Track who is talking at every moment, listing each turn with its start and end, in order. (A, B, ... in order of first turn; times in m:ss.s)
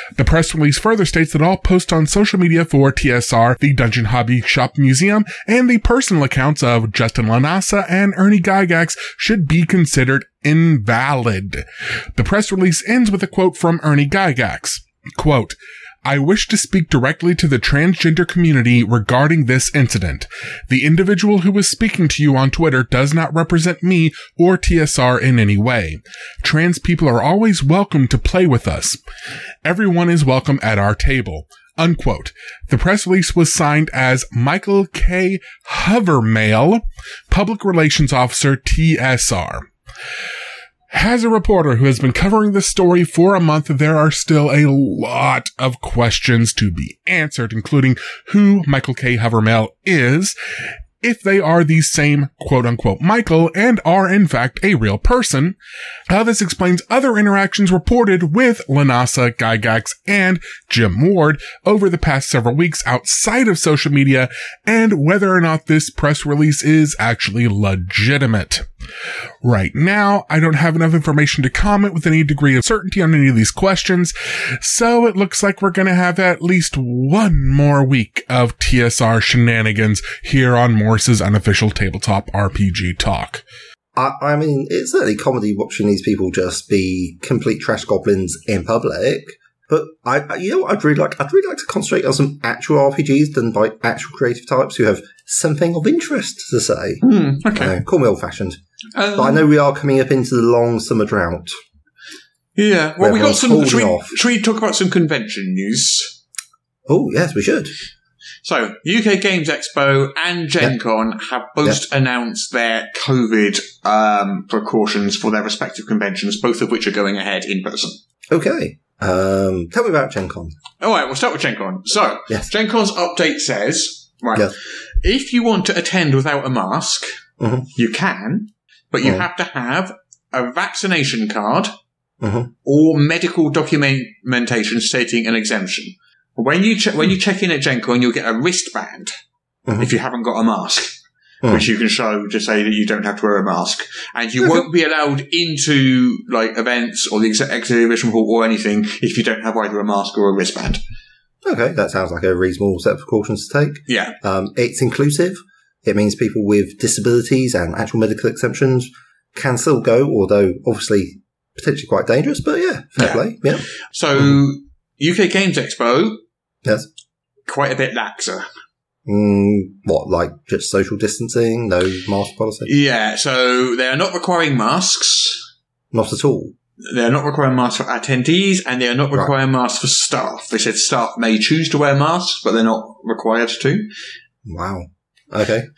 0:00.2-0:29.0 A
0:29.6-0:39.7 A
0:40.9-0:50.4 A
0:51.0-0:55.6 A
0:56.1-1:08.6 A
1:09.4-1:23.4 A
1:24.0-1:38.6 B
1:37.0-1:37.8 C
1:38.9-1:39.5 C
1:39.1-1:41.5 B
1:42.6-1:46.2 C
1:43.0-1:44.1 B
1:46.9-1:47.7 B
1:48.4-1:58.0 C
1:58.3-2:00.6 B
2:00.8-2:07.1 C
2:07.4-2:07.7 B
2:07.8-2:11.7 C
2:12.2-2:12.5 B
2:12.6-2:19.1 C
2:19.7-2:19.9 B
2:19.8-2:30.8 C
2:24.4-2:24.6 B
2:31.4-2:44.4 B
2:33.9-2:34.1 C
2:43.0-2:43.3 C
2:43.9-2:46.2 C
2:47.5-2:48.5 C
2:49.0-2:52.7 B
2:52.6-2:55.4 C
2:55.9-2:56.5 B
2:56.8-3:03.9 C
3:04.4-3:05.7 B